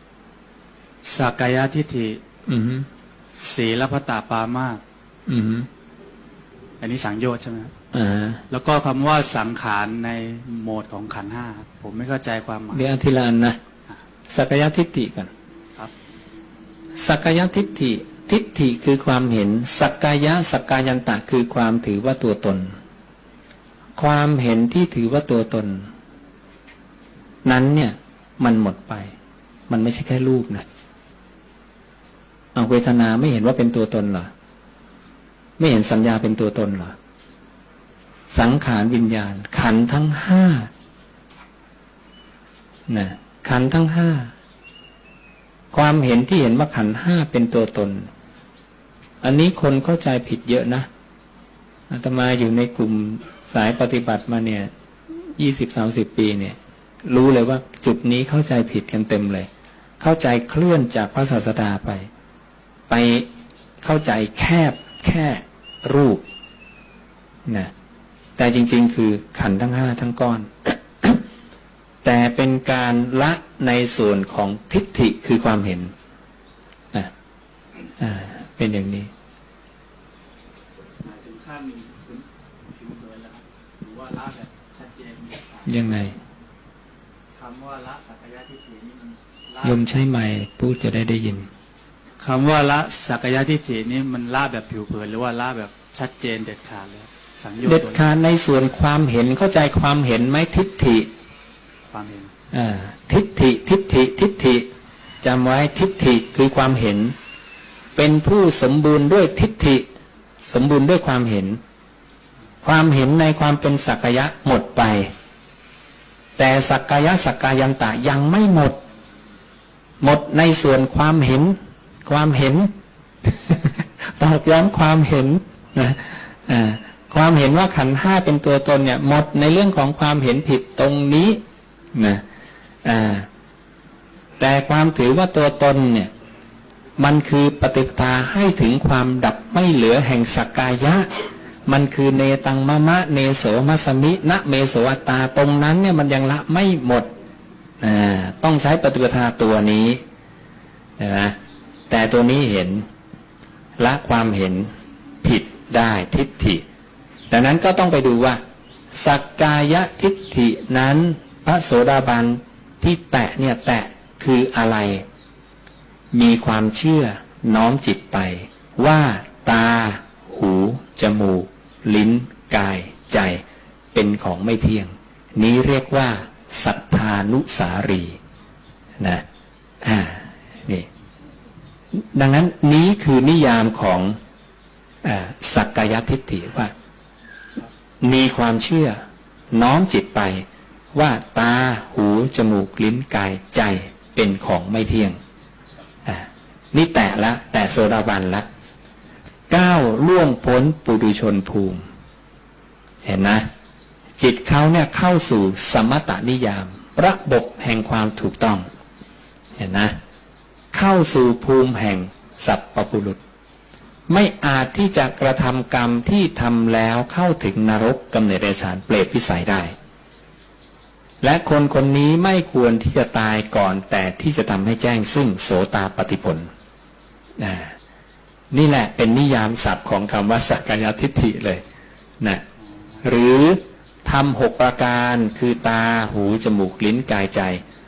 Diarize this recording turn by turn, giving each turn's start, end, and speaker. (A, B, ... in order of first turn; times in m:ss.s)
0:01.0-0:02.2 A
0:02.5-0:02.9 B
0:03.4-0:04.8 A
0:05.3-0:05.7 B
0:06.8-0:07.7 A
0:07.9-0:08.4 B
0:08.5-0:12.8 A
0:12.7-0:13.6 B
0:14.3-0:15.3 B
0:17.0-0:22.7 B
0:24.0-0:25.9 B
0:27.4-0:29.1 B
0:29.7-0:30.7 B
0:32.6-0:34.3 B
0:35.6-0:37.0 B
0:38.3-0:40.7 B
0:42.9-0:44.3 B
0:45.7-0:48.1 B
0:49.2-0:50.9 B
0:51.9-0:59.5 B
1:00.0-1:02.1 B
1:02.9-1:03.3 B
1:03.8-1:06.2 B
1:07.5-1:07.7 B
1:08.4-1:11.2 B
1:12.0-1:15.9 B
1:18.0-1:19.1 B
1:21.0-1:25.9 A
1:25.7-1:26.2 B
1:27.4-1:29.8 A
1:29.6-1:31.5 B
1:32.2-1:38.0 A
1:37.6-1:41.1 B
1:41.9-1:42.3 A
1:42.5-1:44.7 B
1:45.2-1:47.2 B
1:48.0-1:49.9 B
1:50.4-1:51.6 B
1:52.6-1:55.1 B
1:56.4-1:58.8 B
2:00.0-2:02.7 B
2:03.2-2:11.4 B
2:11.9-2:12.2 B
2:12.8-2:13.3 B
2:14.4-2:16.1 B
2:17.0-2:21.1 B
2:21.7-2:27.1 B
2:27.8-2:30.0 B
2:31.0-2:31.4 B
2:31.9-2:32.8 B
2:33.8-2:34.7 B
2:35.2-2:36.6 B
2:37.3-2:38.4 B
2:38.9-2:45.0 B
2:46.1-2:53.4 B
2:53.9-2:58.2 B
2:59.8-3:00.9 B
3:01.9-3:04.2 B
3:05.0-3:06.7 B
3:08.0-3:09.0 B
3:09.5-3:15.2 B
3:16.0-3:18.5 B
3:19.5-3:21.8 B
3:23.0-3:23.5 B
3:24.2-3:28.6 B
3:29.6-3:30.0 B
3:30.7-3:33.2 B
3:34.1-3:39.8 B
3:41.2-3:46.5 B
3:47.4-3:47.8 B
3:48.5-3:51.6 B
3:53.0-3:57.6 B